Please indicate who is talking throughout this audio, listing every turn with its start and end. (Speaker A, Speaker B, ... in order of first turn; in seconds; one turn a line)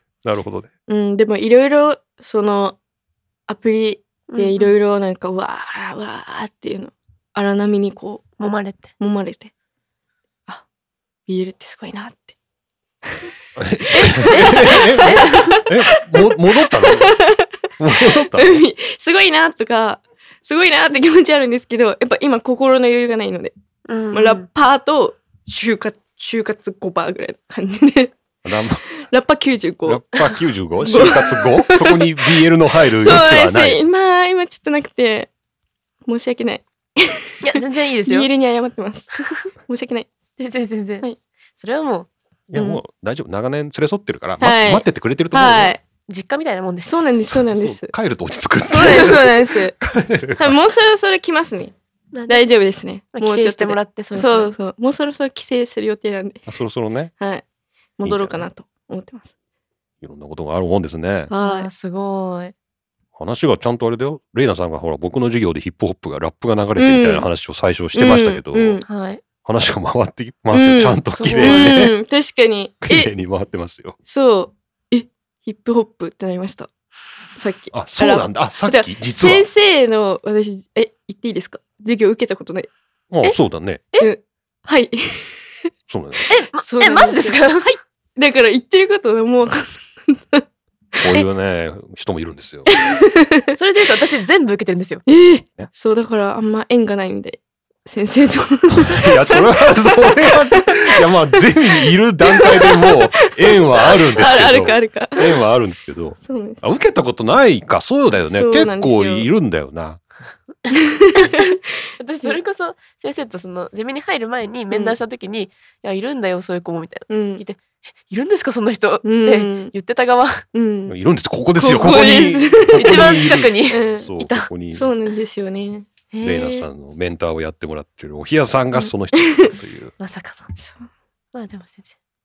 Speaker A: 0.2-0.7
Speaker B: 0.9-2.8
Speaker B: 3.5-8.3
Speaker C: 4.3-4.7
Speaker C: 8.4-8.9
Speaker B: 9.0-9.5
Speaker B: 11.3-12.3
Speaker A: 13.6-17.1
Speaker C: 13.9-15.6
Speaker B: 13.9-17.5
Speaker A: 17.8-18.6
Speaker B: 18.1-23.5
Speaker C: 23.9-24.4
Speaker B: 24.1-28.1
Speaker A: 28.4-28.9
Speaker B: 29.1-32.1
Speaker A: 29.9-33.8
Speaker B: 33.0-35.3
Speaker B: 36.1-40.1
Speaker C: 37.4-38.3
Speaker C: 40.4-41.1
Speaker C: 41.6-42.1
Speaker A: 42.5-45.8
Speaker B: 42.5-42.8
Speaker B: 44.4-45.8
Speaker C: 46.1-47.1
Speaker B: 46.9-47.9
Speaker A: 47.5-50.5
Speaker B: 48.7-49.8
Speaker B: 50.4-51.7
Speaker C: 52.1-52.5
Speaker B: 52.3-56.4
Speaker C: 53.1-54.5
Speaker A: 56.5-57.1
Speaker B: 58.0-59.3
Speaker A: 58.0-58.4
Speaker A: 60.0-61.3
Speaker B: 61.3-61.7
Speaker C: 61.4-62.5
Speaker A: 63.2-68.8
Speaker B: 66.8-67.2
Speaker B: 67.9-68.8
Speaker C: 68.9-69.2
Speaker A: 69.4-72.0
Speaker B: 70.5-73.1
Speaker C: 71.2-71.9
Speaker A: 72.8-74.0
Speaker B: 74.1-76.7
Speaker B: 77.4-82.7
Speaker A: 77.7-79.5
Speaker A: 83.1-83.8
Speaker B: 84.0-85.7
Speaker A: 85.9-86.2
Speaker C: 86.3-87.8
Speaker B: 86.5-90.5
Speaker A: 91.0-92.7
Speaker B: 92.7-93.5
Speaker C: 93.5-95.0
Speaker B: 95.1-99.5
Speaker A: 98.8-110.0
Speaker B: 100.1-100.8
Speaker B: 102.3-105.3
Speaker B: 106.2-106.6
Speaker B: 108.2-109.3
Speaker B: 110.7-111.6
Speaker C: 112.0-120.5
Speaker B: 117.1-117.4
Speaker B: 119.0-119.7
Speaker B: 120.5-121.0
Speaker A: 120.9-124.9
Speaker B: 121.6-123.1
Speaker C: 122.7-124.5
Speaker B: 123.7-125.9
Speaker C: 126.1-126.7
Speaker A: 126.2-129.9
Speaker B: 128.8-129.5
Speaker C: 130.0-130.5
Speaker B: 130.6-130.9
Speaker C: 131.3-131.9